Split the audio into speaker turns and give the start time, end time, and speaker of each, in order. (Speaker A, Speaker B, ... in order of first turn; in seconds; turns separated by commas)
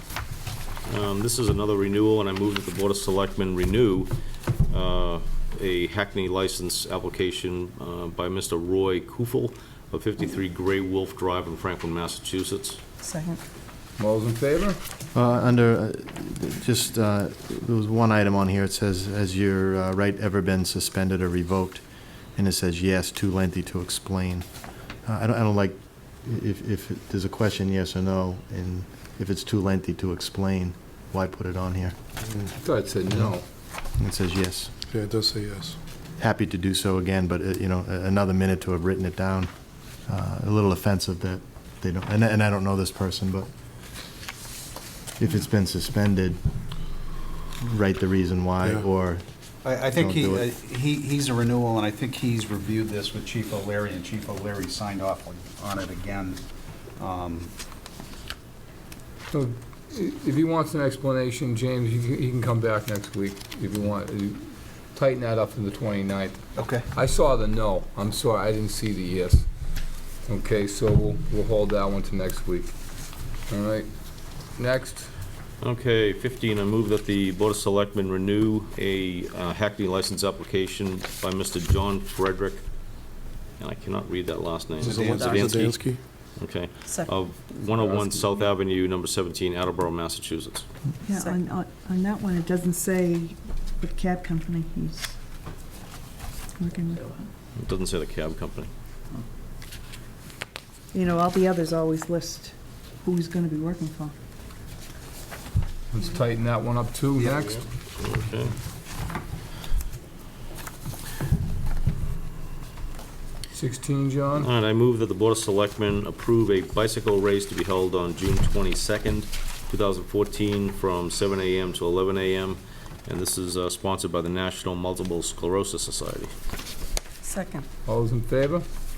Speaker A: 0.8-4.1, Speaker A: 4.7-12.8, Speaker B: 13.0-13.4, Speaker C: 14.0-14.8, Speaker D: 15.1-21.8, Speaker D: 22.4-24.4, Speaker D: 25.0-31.9, Speaker C: 32.5-33.4, Speaker D: 34.0-34.7, Speaker E: 34.9-35.8, Speaker D: 36.2-39.5, Speaker D: 40.0-43.5, Speaker D: 45.2-46.4, Speaker D: 47.6-49.2, Speaker F: 49.6-56.4, Speaker D: 49.8-50.5, Speaker F: 57.0-57.5, Speaker C: 59.3-69.5, Speaker F: 66.6-66.8, Speaker C: 70.2-72.8, Speaker C: 73.5-73.9, Speaker C: 74.5-75.1, Speaker A: 75.6-82.6, Speaker A: 83.6-90.7, Speaker F: 84.8-85.6, Speaker E: 84.9-86.0, Speaker B: 85.0-85.5, Speaker B: 86.8-87.2, Speaker G: 91.0-95.2, Speaker B: 91.1-91.4, Speaker G: 96.6-97.2, Speaker A: 97.5-98.7, Speaker G: 100.9-104.1, Speaker C: 105.9-107.6, Speaker A: 107.2-108.6, Speaker C: 113.5-114.5, Speaker A: 114.4-126.3, Speaker B: 127.2-127.7, Speaker C: 127.8-128.6